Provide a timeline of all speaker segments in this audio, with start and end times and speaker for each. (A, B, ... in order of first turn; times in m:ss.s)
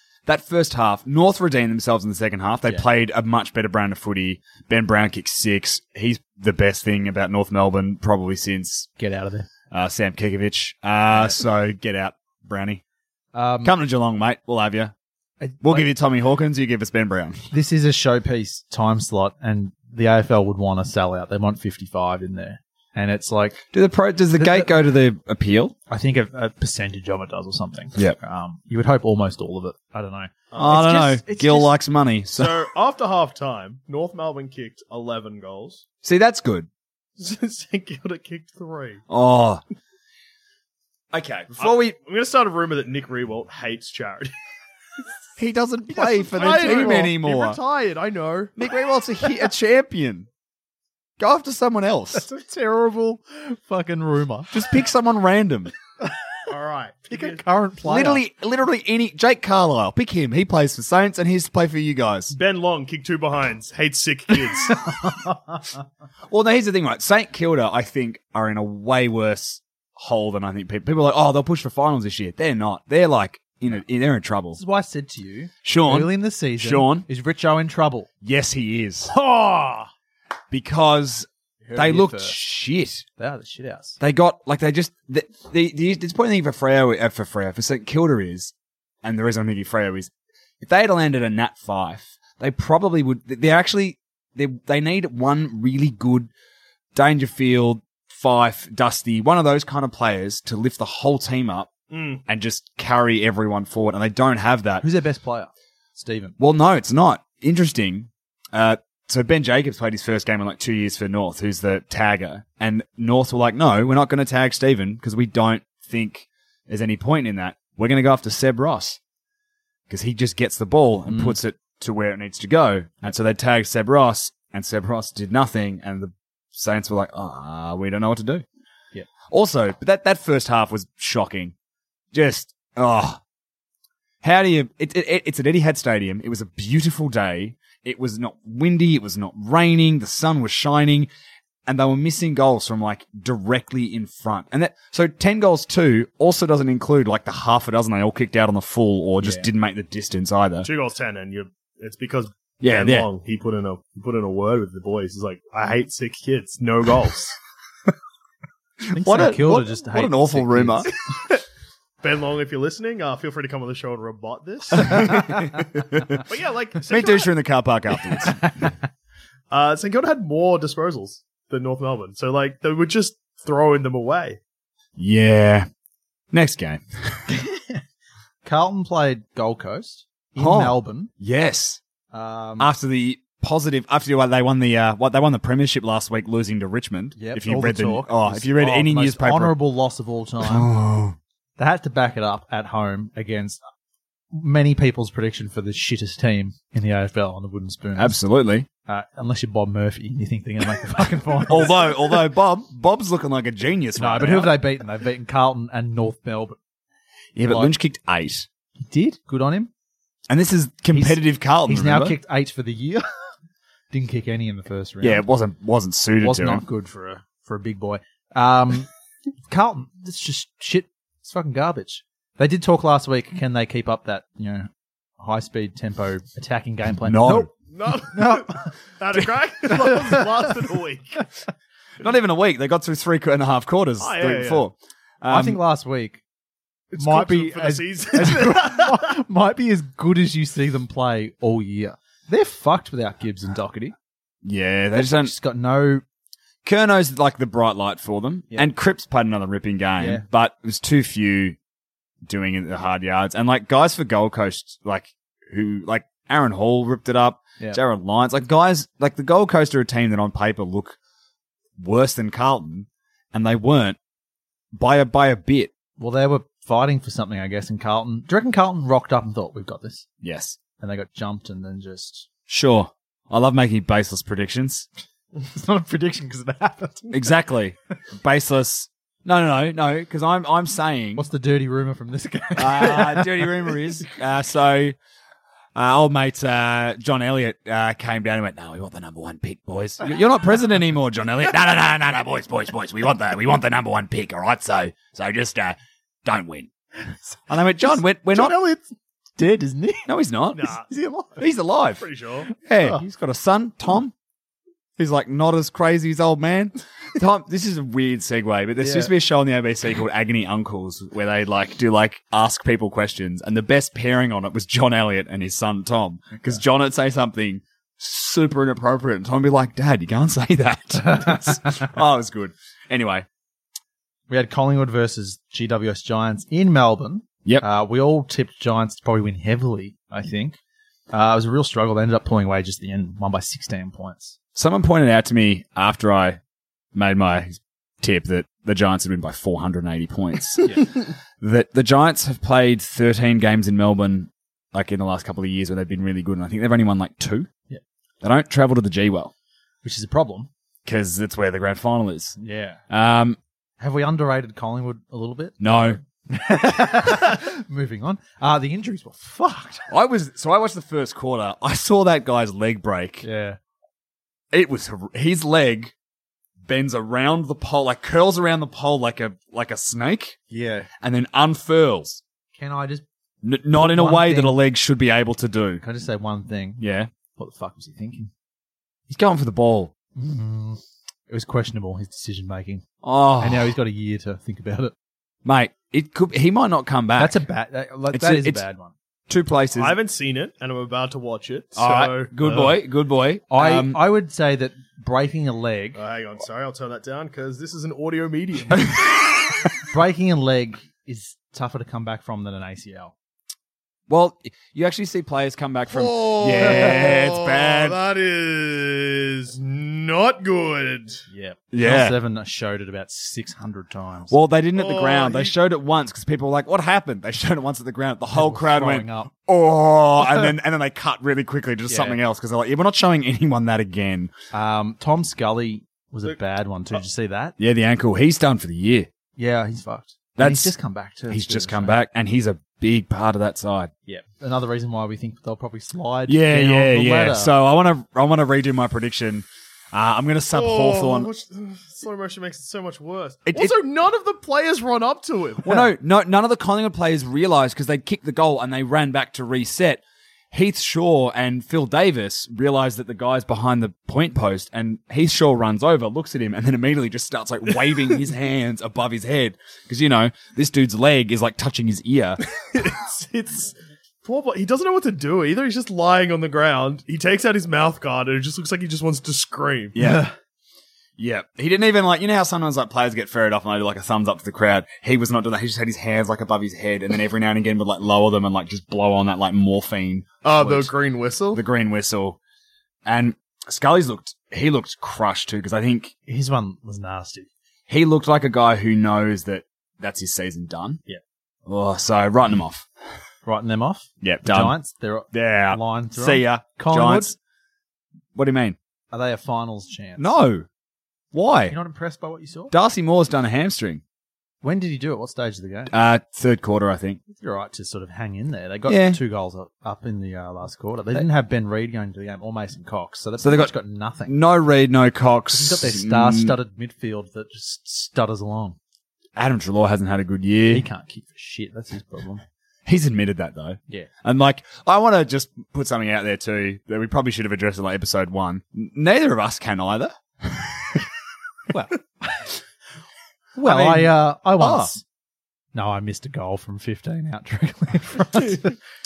0:00.3-0:08.9 A
0:09.0-0:09.5 B
0:09.7-0:12.8 A
0:11.1-0:11.4 B
0:13.3-0:13.8 B
0:13.6-0:14.9 A
0:15.4-0:15.9 B
0:15.6-0:17.4 A
0:17.5-0:23.7 B
0:23.7-0:25.8 A
0:24.4-0:24.7 B
0:25.9-0:31.7 B
0:30.5-0:30.8 C
0:30.6-0:32.7 A
0:32.3-0:35.8 C
0:36.0-0:36.7 A
0:37.2-0:39.0 C
0:39.1-0:39.6 A
0:41.1-0:42.0 A
0:41.6-0:44.3 C
0:45.4-0:47.6 A
0:45.9-0:48.5 C
0:48.6-0:50.3 A
0:51.2-0:52.2 A
0:52.1-0:54.6 B
0:54.5-0:55.7 A
0:56.5-0:57.4 C
0:57.1-0:58.2 B
0:57.9-1:02.4 A
1:02.3-1:05.0 C
1:04.8-1:05.6 B
1:06.3-1:14.6 A
1:14.6-1:18.1 B
1:15.6-1:17.1 A
1:18.2-1:19.1 A
1:19.1-1:19.9 B
1:20.5-1:23.0 A
1:21.6-1:22.4 B
1:23.2-1:24.0 B
1:24.0-1:28.5 A
1:29.0-1:36.3 A
1:36.9-1:41.7 A
1:41.9-1:42.2 C
1:42.3-1:44.9 A
1:44.8-1:46.4 B
1:46.4-1:59.0 A
1:59.9-2:08.4 A
2:01.1-2:01.4 B
2:09.3-2:11.5 A
2:12.1-2:13.2 A
2:14.2-2:21.1 A
2:21.7-2:30.7 A
2:29.2-2:29.5 B
2:30.6-2:37.4 C
2:32.6-2:33.1 A
2:38.9-2:40.9 B
2:38.9-2:40.9 A
2:42.0-2:45.0 C
2:44.8-2:46.0 A
2:46.3-2:47.3 C
2:46.9-2:48.7 A
2:48.2-2:48.5 B
2:49.5-2:54.4 C
2:55.0-2:55.7 A
2:56.3-2:57.2 A
2:57.3-2:57.8 B
2:58.4-3:01.1 B
3:00.4-3:01.8 A
3:02.1-3:02.7 B
3:02.6-3:09.6 A
3:07.2-3:10.7 B
3:10.4-3:11.2 A
3:11.6-3:13.6 B
3:14.3-3:18.2 B
3:18.0-3:18.7 A
3:18.9-3:21.8 B
3:21.5-3:24.6 A
3:24.0-3:26.6 B
3:27.4-3:28.4 A
3:27.4-3:27.7 B
3:28.8-3:29.7 B
3:30.3-3:32.2 A
3:30.9-3:33.1 B
3:33.9-3:35.2 B
3:35.0-3:36.6 A
3:36.2-3:38.9 B
3:39.5-3:47.5 B
3:47.0-3:47.5 A
3:47.7-3:51.3 C
3:48.1-3:48.7 B
3:52.0-3:55.6 A
3:54.0-3:54.6 C
3:55.3-3:56.2 B
3:56.9-3:58.9 C
3:57.0-4:03.9 B
4:04.4-4:05.3 A
4:05.0-4:06.0 B
4:06.6-4:11.6 A
4:10.0-4:10.2 B
4:12.2-4:21.0 A
4:21.8-4:24.0 A
4:24.7-4:25.7 A
4:26.0-4:30.1 B
4:30.2-4:30.6 A
4:30.8-4:32.3 B
4:32.5-4:34.9 A
4:35.4-4:37.3 B
4:37.1-4:41.2 A
4:41.1-4:43.8 B
4:42.6-4:45.0 A
4:45.8-4:56.7 A
4:57.5-4:58.6 A
4:57.9-5:00.1 B
5:00.1-5:00.8 A
5:00.5-5:00.8 C
5:00.8-5:01.4 B
5:01.4-5:04.1 A
5:02.0-5:02.5 C
5:05.0-5:23.3 A
5:08.8-5:09.1 B
5:21.0-5:21.5 B
5:24.3-5:30.6 B
5:31.1-5:34.4 B
5:34.6-5:36.4 A
5:36.9-5:47.5 A
5:48.2-5:49.3 A
5:49.8-5:50.5 B
5:50.9-5:52.4 A
5:52.4-5:52.8 B
5:52.9-5:53.4 A
5:53.8-5:59.9 B
5:55.6-5:56.0 A
5:59.9-6:03.2 A
6:03.2-6:03.6 B
6:04.5-6:05.9 A
6:06.6-6:10.4 A
6:10.5-6:10.9 B
6:11.0-6:12.2 A
6:12.6-6:13.0 B
6:13.4-6:15.8 A
6:13.7-6:14.6 B
6:15.8-6:16.8 B
6:16.8-6:17.1 A
6:17.4-6:18.3 B
6:19.1-6:19.9 A
6:20.2-6:22.8 B
6:23.0-6:23.7 A
6:23.4-6:24.9 B
6:25.4-6:27.4 A
6:27.2-6:28.9 B
6:28.1-6:28.6 A
6:29.3-6:29.9 A
6:29.8-6:32.8 C
6:31.8-6:34.0 A
6:33.5-6:36.0 B
6:35.9-6:39.0 C
6:39.9-6:43.1 B
6:44.1-6:48.0 A
6:45.9-6:51.2 C
6:51.3-6:54.4 B
6:51.7-6:52.2 A
6:54.3-7:04.3 A
6:54.8-6:55.6 C
6:58.3-6:59.3 B
7:01.9-7:02.2 B
7:04.5-7:07.6 B
7:07.6-7:09.1 A
7:09.4-7:12.0 B
7:10.4-7:10.7 A
7:11.3-7:13.9 A
7:14.1-7:17.5 B
7:16.3-7:21.3 A
7:20.5-7:25.7 C
7:23.5-7:23.8 A
7:25.6-7:30.0 A
7:30.5-7:42.4 A
7:42.6-7:50.0 C
7:49.9-7:50.3 A
7:50.0-7:50.3 B
7:51.2-8:00.9 A
8:00.4-8:01.6 C
8:01.5-8:02.4 A
8:03.0-8:06.1 A
8:06.3-8:07.5 B
8:07.9-8:11.0 A
8:11.7-8:12.9 A
8:13.4-8:17.4 B
8:14.2-8:14.8 A
8:15.3-8:17.4 A
8:18.4-8:18.8 A
8:19.1-8:20.2 B
8:20.2-8:20.6 A
8:21.3-8:21.8 A
8:21.7-8:22.7 B
8:22.7-8:24.0 A
8:24.6-8:25.9 B
8:25.9-8:27.2 A
8:27.3-8:34.3 B
8:28.9-8:29.2 A
8:33.4-8:33.7 A
8:34.3-8:36.6 A
8:35.5-8:38.8 B
8:39.4-8:40.9 A
8:40.7-8:42.4 B
8:42.9-8:51.0 A
8:51.7-8:52.5 B
8:53.6-8:55.0 B
8:53.6-8:54.9 A
8:55.7-8:58.7 B